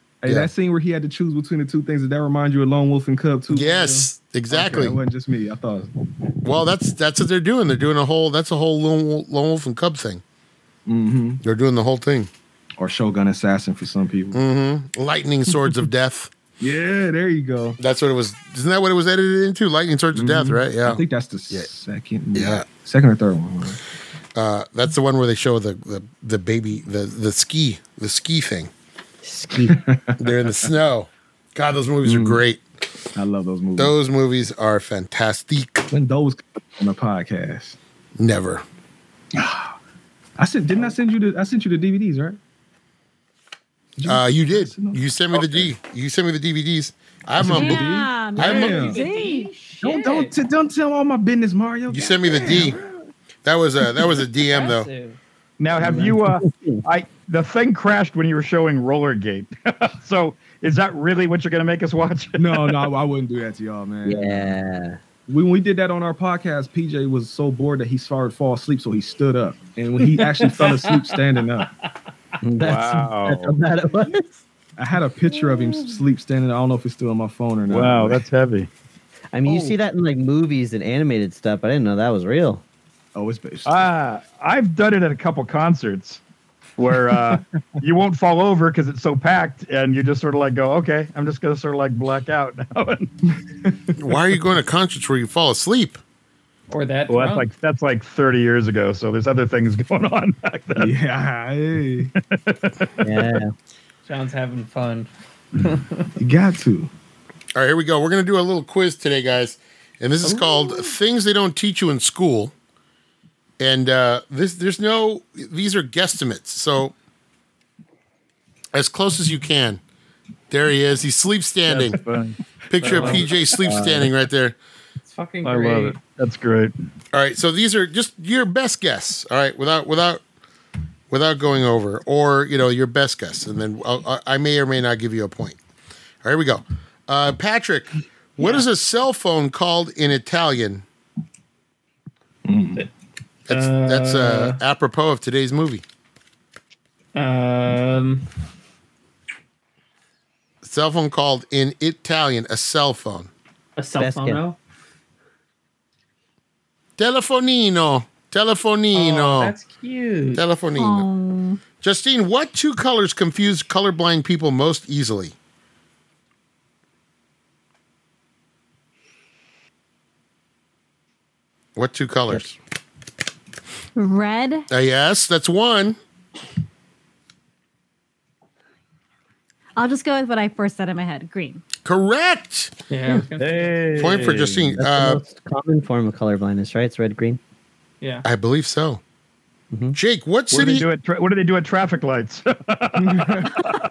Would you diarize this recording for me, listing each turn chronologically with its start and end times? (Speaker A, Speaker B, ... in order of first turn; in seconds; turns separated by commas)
Speaker A: 0.2-5.9, Speaker B: 3.5-5.0, Speaker B: 6.4-10.2, Speaker A: 10.8-11.4, Speaker B: 11.4-12.3, Speaker A: 12.8-14.4, Speaker B: 14.3-16.3, Speaker A: 16.6-17.8, Speaker B: 17.8-21.7, Speaker A: 20.1-23.8, Speaker B: 22.3-22.7, Speaker B: 24.3-28.7, Speaker C: 29.2-29.8, Speaker A: 29.7-30.3, Speaker B: 30.2-32.6, Speaker A: 32.0-32.4, Speaker A: 33.1-34.0, Speaker B: 33.8-35.9, Speaker A: 35.9-37.8, Speaker B: 38.2-38.6, Speaker A: 39.3-39.7, Speaker A: 40.4-42.4, Speaker A: 44.0-45.7, Speaker B: 44.0-48.7, Speaker A: 47.4-49.0, Speaker D: 47.4-49.5, Speaker E: 48.5-50.4, Speaker A: 49.8-53.1, Speaker B: 51.9-52.8, Speaker B: 53.4-54.9, Speaker E: 54.5-55.2, Speaker F: 55.6-62.9, Speaker C: 55.8-56.8, Speaker A: 62.4-64.6, Speaker C: 64.0-65.0, Speaker A: 65.3-71.7, Speaker E: 70.0-71.3, Speaker C: 72.4-74.4, Speaker F: 72.6-73.6, Speaker A: 74.8-78.2, Speaker F: 77.7-78.7, Speaker C: 79.3-82.6, Speaker A: 79.5-79.8, Speaker A: 83.1-83.8, Speaker F: 83.6-86.2, Speaker F: 86.8-93.1, Speaker A: 93.6-93.9, Speaker B: 94.0-96.0, Speaker E: 96.7-97.5, Speaker F: 97.1-101.0, Speaker A: 100.8-102.1, Speaker F: 102.3-103.1, Speaker C: 103.0-103.5, Speaker E: 104.0-106.1, Speaker A: 106.2-106.9, Speaker B: 107.5-112.5, Speaker E: 110.3-110.9, Speaker B: 113.6-116.9, Speaker B: 118.7-119.8, Speaker B: 120.5-122.0, Speaker F: 121.7-124.1, Speaker B: 122.7-124.5, Speaker E: 122.8-123.2, Speaker E: 125.0-126.0, Speaker F: 125.4-126.7, Speaker B: 127.1-130.2, Speaker B: 131.1-135.6, Speaker B: 136.2-140.8, Speaker E: 138.4-138.7, Speaker A: 142.4-142.8, Speaker B: 143.5-145.8, Speaker E: 143.5-144.6, Speaker E: 147.1-148.3, Speaker B: 150.6-153.3, Speaker E: 153.8-154.6, Speaker C: 154.0-154.4, Speaker B: 157.0-159.5, Speaker E: 158.9-160.4, Speaker B: 160.3-161.1, Speaker D: 160.7-161.6, Speaker B: 161.8-165.3, Speaker B: 171.8-172.6, Speaker D: 173.9-174.7, Speaker B: 174.7-176.0, Speaker D: 179.8-181.6, Speaker B: 181.8-182.7, Speaker E: 182.9-184.2, Speaker F: 183.4-184.8, Speaker B: 183.9-185.2, Speaker C: 184.8-187.4, Speaker E: 188.0-188.3, Speaker B: 188.2-189.0, Speaker C: 189.7-190.0, Speaker B: 189.9-190.9, Speaker F: 190.5-193.7, Speaker A: 193.0-193.5